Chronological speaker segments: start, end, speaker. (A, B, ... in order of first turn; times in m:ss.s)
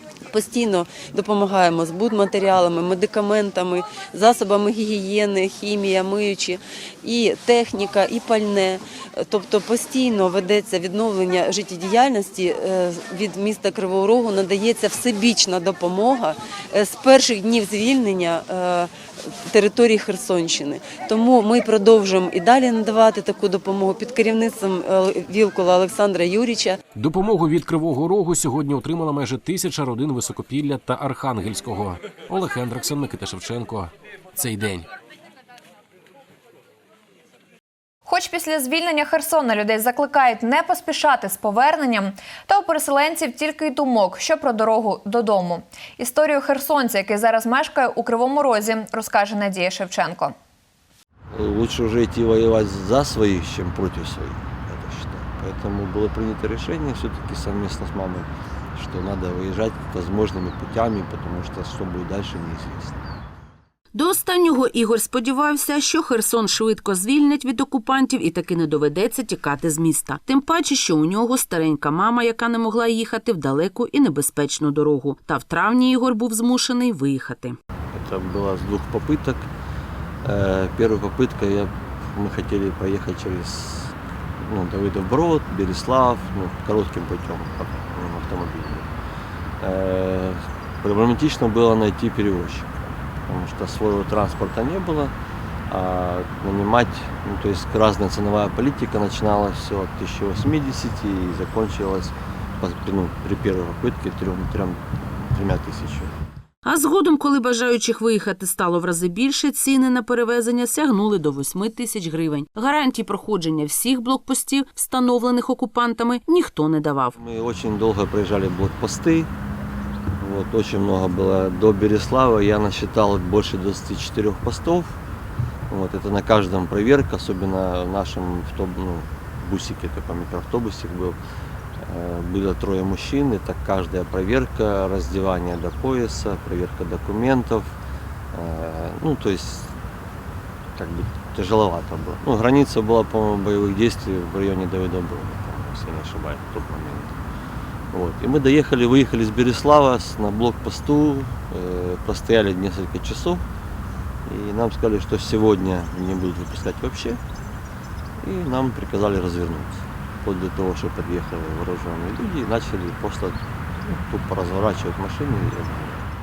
0:00.3-0:26.8 A
0:27.0-0:34.9 B
0:38.1-0:50.4 C
0:51.3-1:03.0 D
1:03.9-1:17.6 E
1:17.9-1:19.4 D
1:20.2-1:28.9 D
1:29.6-1:32.7 D
1:33.3-1:35.1 D
1:35.7-1:44.8 D
1:45.3-1:46.1 D
1:46.6-1:57.1 E
1:57.2-1:59.3 D
2:00.2-2:04.9 D
2:05.7-2:11.2 D
2:11.8-2:17.7 D
2:18.3-2:19.7 D
2:20.8-2:27.2 D
2:27.9-2:33.4 D
2:34.3-2:37.2 D
2:38.2-2:46.1 D